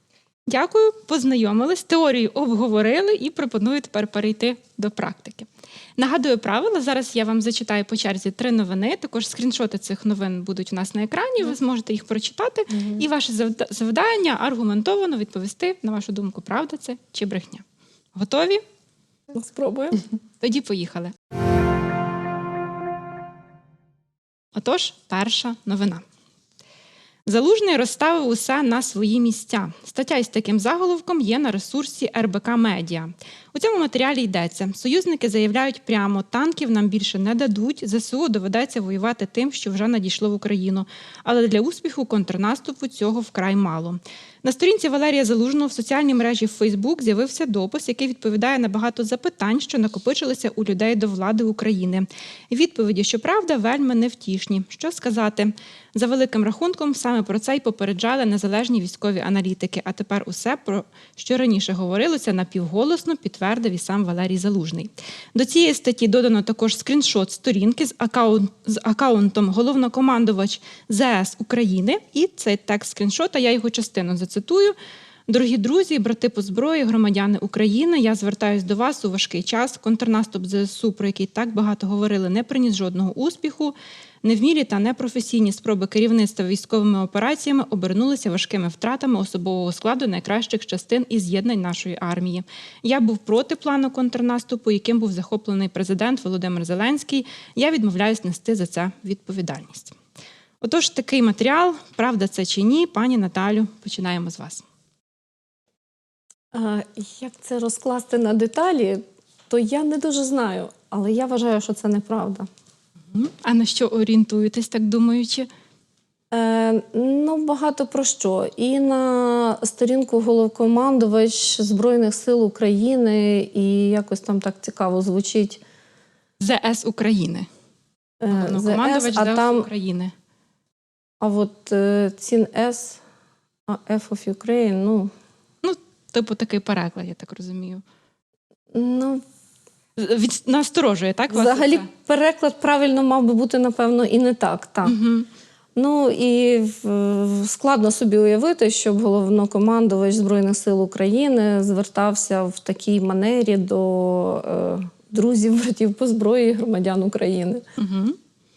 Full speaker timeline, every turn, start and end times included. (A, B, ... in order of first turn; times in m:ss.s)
0:00.5-0:18.6 A
0:19.3-0:20.0 B
0:20.4-0:21.1 A
0:24.5-0:26.0 A
0:27.3-1:14.8 A
1:15.3-1:40.0 A
1:40.6-1:44.6 A
1:46.5-1:52.5 B
1:53.1-1:55.5 A
1:56.3-2:05.6 B
2:06.4-2:07.5 A
2:08.2-2:09.7 B
2:08.3-2:10.1 A
2:11.2-2:13.0 B
2:13.7-2:15.1 B
2:15.6-2:17.8 A
2:18.7-2:19.2 B
2:20.0-2:21.9 A
2:21.3-2:25.0 B
2:24.8-2:25.3 A
2:25.8-2:37.6 B
2:37.8-2:38.2 A